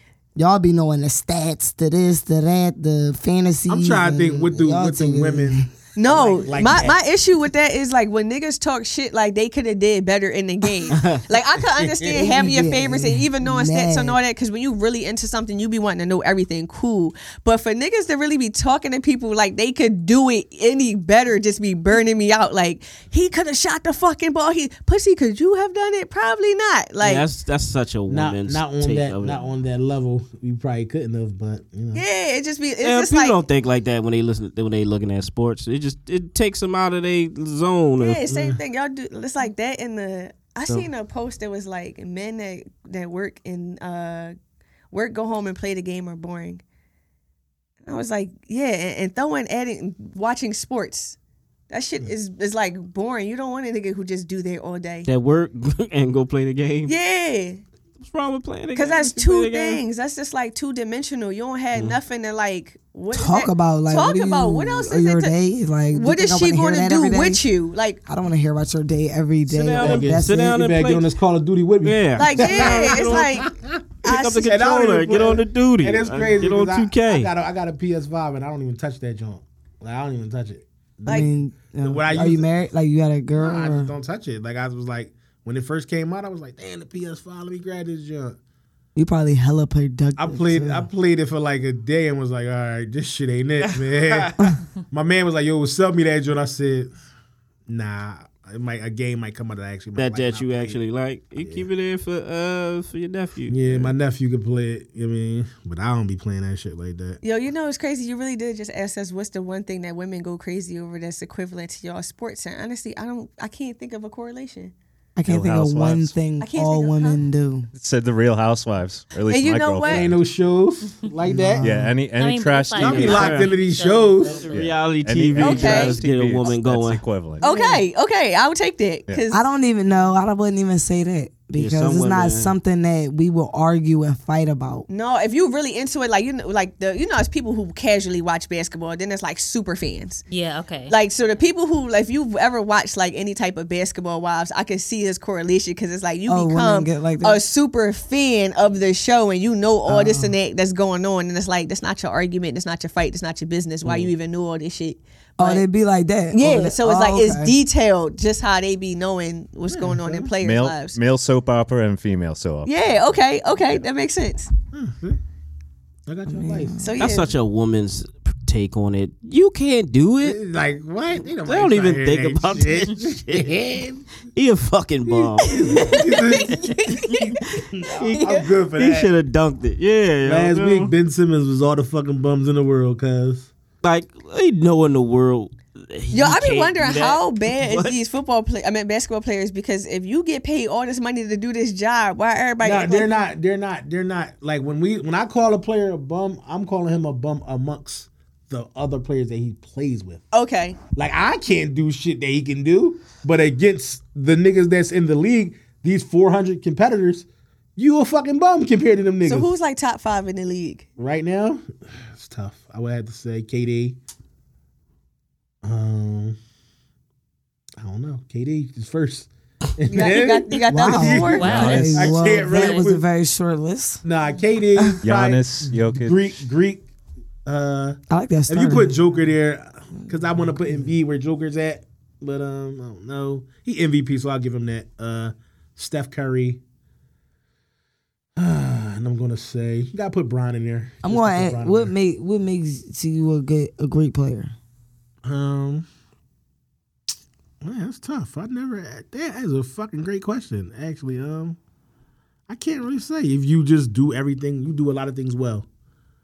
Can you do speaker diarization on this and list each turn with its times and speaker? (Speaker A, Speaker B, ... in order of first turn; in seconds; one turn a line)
Speaker A: 0.4-5.7
Speaker B: 3.7-7.0
Speaker C: 6.0-27.2
Speaker D: 10.9-11.2
Speaker B: 11.8-12.3
Speaker A: 12.1-14.2
Speaker D: 27.0-29.4
Speaker B: 28.1-32.0
Speaker C: 31.9-33.4
Speaker D: 32.8-38.2
Speaker C: 38.0-44.4
Speaker B: 38.3-38.6
Speaker C: 44.9-46.6
Speaker C: 47.9-51.2
Speaker C: 51.7-55.1
Speaker D: 55.1-56.9
Speaker C: 56.9-57.6
Speaker D: 58.0-59.8
Speaker C: 58.8-65.3
Speaker A: 63.1-67.5
Speaker C: 65.9-68.0
Speaker A: 68.0-70.6
Speaker D: 69.5-71.1
Speaker B: 69.8-73.8
Speaker D: 71.8-73.5
Speaker C: 72.2-73.5
Speaker C: 74.0-74.5
Speaker D: 74.0-77.3
Speaker B: 74.4-82.5
Speaker A: 81.1-83.9
Speaker B: 83.3-88.4
Speaker A: 89.0-90.9
Speaker B: 90.2-96.9
Speaker D: 93.6-94.3
Speaker B: 97.7-100.8
Speaker D: 100.0-103.9
Speaker B: 101.4-101.7
Speaker B: 103.5-107.2
Speaker C: 107.2-114.7
Speaker A: 115.2-117.7
Speaker E: 115.2-116.2
Speaker C: 116.4-117.2
Speaker E: 117.7-120.2
Speaker C: 119.3-120.1
Speaker B: 119.9-121.7
Speaker A: 121.3-122.0
Speaker E: 121.6-123.3
Speaker F: 122.2-124.7
Speaker B: 122.8-124.5
Speaker D: 122.8-123.5
Speaker D: 124.2-127.0
Speaker E: 124.5-127.4
Speaker C: 125.4-126.0
Speaker F: 125.4-125.8
Speaker C: 127.4-129.4
Speaker A: 127.4-127.8
Speaker A: 129.3-134.9
Speaker D: 131.6-132.5
Speaker C: 134.9-140.2
Speaker F: 140.3-140.9
Speaker C: 140.9-155.7
Speaker A: 146.3-147.4
Speaker A: 149.9-150.3
Speaker D: 153.8-154.1
Speaker A: 155.4-157.6
Speaker C: 156.3-161.0
Speaker B: 159.7-160.3
Speaker E: 160.4-162.7
Speaker C: 162.7-164.5
Speaker B: 164.7-165.2
Speaker B: 166.1-166.8
Speaker A: 166.3-167.0
Speaker C: 166.8-167.3
Speaker D: 167.0-170.4
Speaker B: 170.2-174.0
Speaker D: 171.4-173.7
Speaker D: 174.3-175.9
Speaker B: 175.1-176.8
Speaker C: 175.6-178.5
Speaker B: 177.7-179.1
Speaker D: 178.0-180.9
Speaker B: 180.2-183.5
Speaker D: 183.8-187.9
Speaker C: 186.1-193.1
Speaker B: 192.6-200.2
Speaker C: 200.3-200.8
Speaker B: 200.9-209.5
Speaker C: 209.2-210.9
Speaker B: 211.0-214.0
Speaker B: 215.6-216.4
Speaker B: 217.8-223.0
Speaker C: 219.9-221.6
Speaker A: 220.7-224.0
Speaker F: 221.3-222.9
Speaker E: 221.5-221.8
Speaker B: 224.1-226.8
Speaker E: 225.0-226.3
Speaker B: 227.5-228.0
Speaker A: 228.1-229.2
Speaker B: 228.5-236.6
Speaker A: 230.3-230.9
Speaker B: 238.4-241.9
Speaker A: 241.0-244.6
Speaker B: 245.2-245.9
Speaker B: 247.6-251.6
Speaker B: 252.5-255.7